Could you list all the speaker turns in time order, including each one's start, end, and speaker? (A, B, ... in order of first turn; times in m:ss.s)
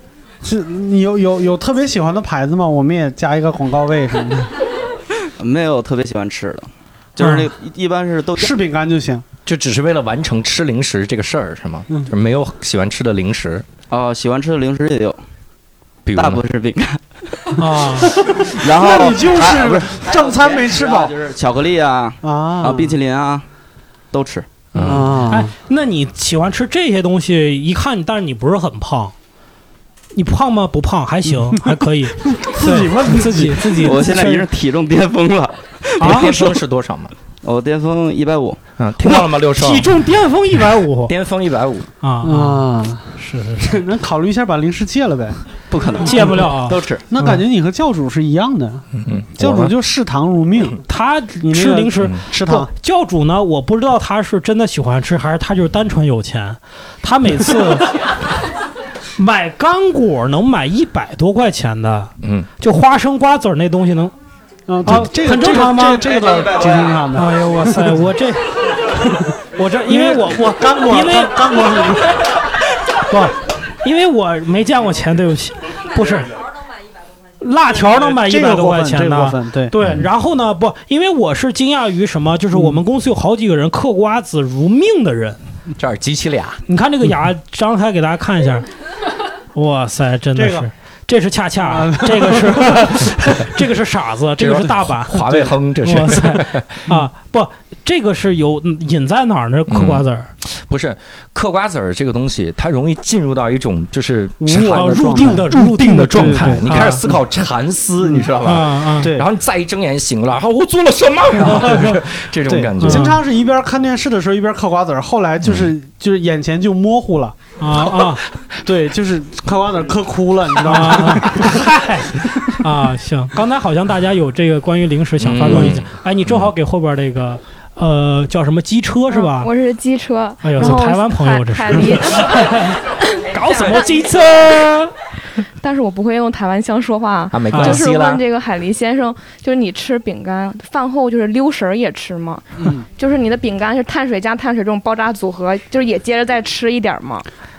0:00.4-0:04.5 A
0:05.4-0:08.5 B
0:08.4-0:09.2 A
0:09.4-0:13.6 C
0:13.9-0:15.2 B
0:16.0-0:16.4 C
0:16.1-0:17.0 B
0:17.6-0:18.1 D
0:18.2-0:21.1 A
0:18.5-0:23.4 B
0:22.2-0:23.0 A
0:24.1-0:24.5 B
0:24.7-0:25.2 C
0:24.8-0:25.5 A
0:25.3-0:29.1 D
0:30.1-0:34.4 D
0:31.5-0:34.1 A
0:33.7-0:36.6 B
0:36.0-0:36.3 D
0:36.0-0:37.1 C
0:37.4-0:38.6 B
0:38.8-0:39.9 C
0:39.0-0:41.1 D
0:41.1-0:41.9 C
0:42.0-0:43.8 D
0:42.2-0:45.4 A
0:45.7-0:47.0 B
0:46.0-0:47.4 D
0:47.1-0:50.8 A
0:48.9-0:49.7 C
0:50.9-0:57.9 D
0:51.4-0:52.7 A
0:59.2-1:04.1 D
1:02.2-1:02.5 C
1:04.7-1:07.8 A
1:04.8-1:06.2 D
1:07.1-1:08.5 D
1:09.5-1:11.6 D
1:09.8-1:12.2 A
1:13.0-1:16.3 D
1:17.4-1:25.4 D
1:17.8-1:19.7 A
1:22.5-1:22.8 A
1:25.8-1:26.6 C
1:26.7-1:28.6 D
1:29.5-1:40.3 D
1:30.3-1:30.7 A
1:31.6-1:32.9 A
1:34.4-1:36.6 C
1:39.7-1:53.1 C
1:44.4-1:47.1 A
1:44.6-1:47.0 D
1:48.4-1:49.1 D
1:49.0-1:49.3 A
1:51.4-1:52.0 D
1:52.4-1:57.4 A
1:52.8-1:53.2 D
1:55.4-1:55.7 C
1:57.6-1:58.2 D
1:58.6-2:01.6 A
2:00.6-2:09.5 D
2:05.2-2:06.5 C
2:09.1-2:12.5 E
2:10.4-2:14.9 D
2:15.6-2:27.2 E
2:17.3-2:18.2 C
2:17.5-2:17.8 D